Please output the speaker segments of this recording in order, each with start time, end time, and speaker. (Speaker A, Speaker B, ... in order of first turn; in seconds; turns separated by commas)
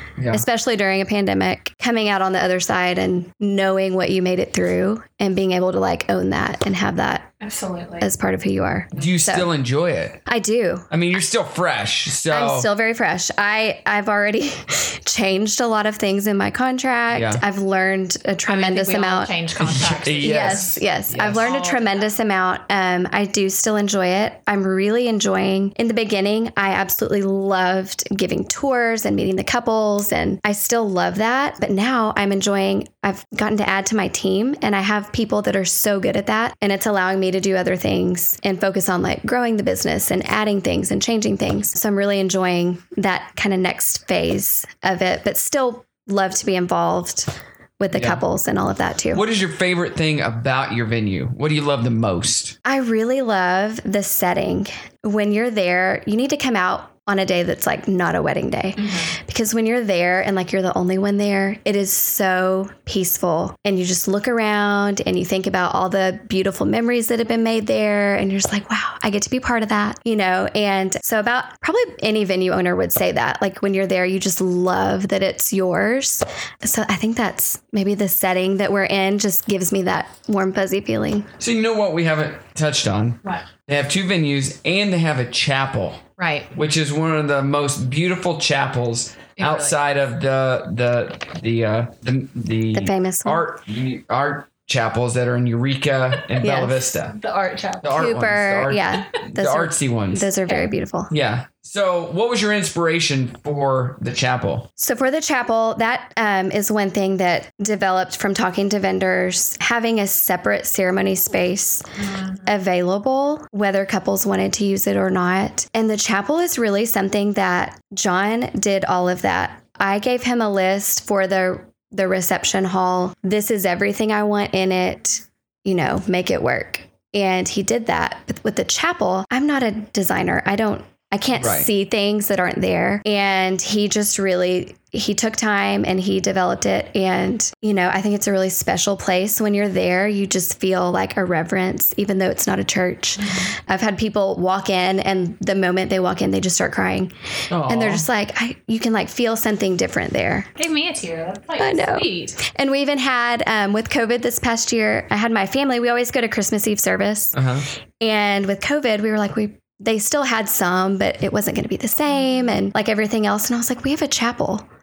Speaker A: 0.2-0.4, Speaker B: 0.3-7.3, Speaker C: 7.4-8.1, Speaker B: 8.0-9.5, Speaker A: 8.9-10.2, Speaker B: 10.3-10.8, Speaker A: 10.9-12.7, Speaker B: 12.3-19.3, Speaker A: 17.1-17.4, Speaker C: 18.5-20.8, Speaker A: 19.6-21.5, Speaker B: 20.2-49.2, Speaker C: 21.3-22.1, Speaker A: 47.9-48.2, Speaker A: 49.1-52.5, Speaker B: 52.6-81.3, Speaker C: 58.8-59.1, Speaker A: 81.4-97.2, Speaker C: 86.2-86.5, Speaker C: 89.4-89.8, Speaker B: 92.7-93.4, Speaker B: 96.4-96.8, Speaker C: 97.1-97.9, Speaker A: 97.8-100.3, Speaker B: 97.9-101.1, Speaker A: 101.1-104.7, Speaker B: 104.8-111.8, Speaker C: 112.0-112.5, Speaker B: 112.4-150.5, Speaker A: 131.4-131.7, Speaker C: 143.2-143.5, Speaker A: 147.5-148.1, Speaker C: 150.6-152.4, Speaker B: 151.6-157.4, Speaker A: 157.3-157.6, Speaker B: 158.0-164.7, Speaker C: 162.1-162.5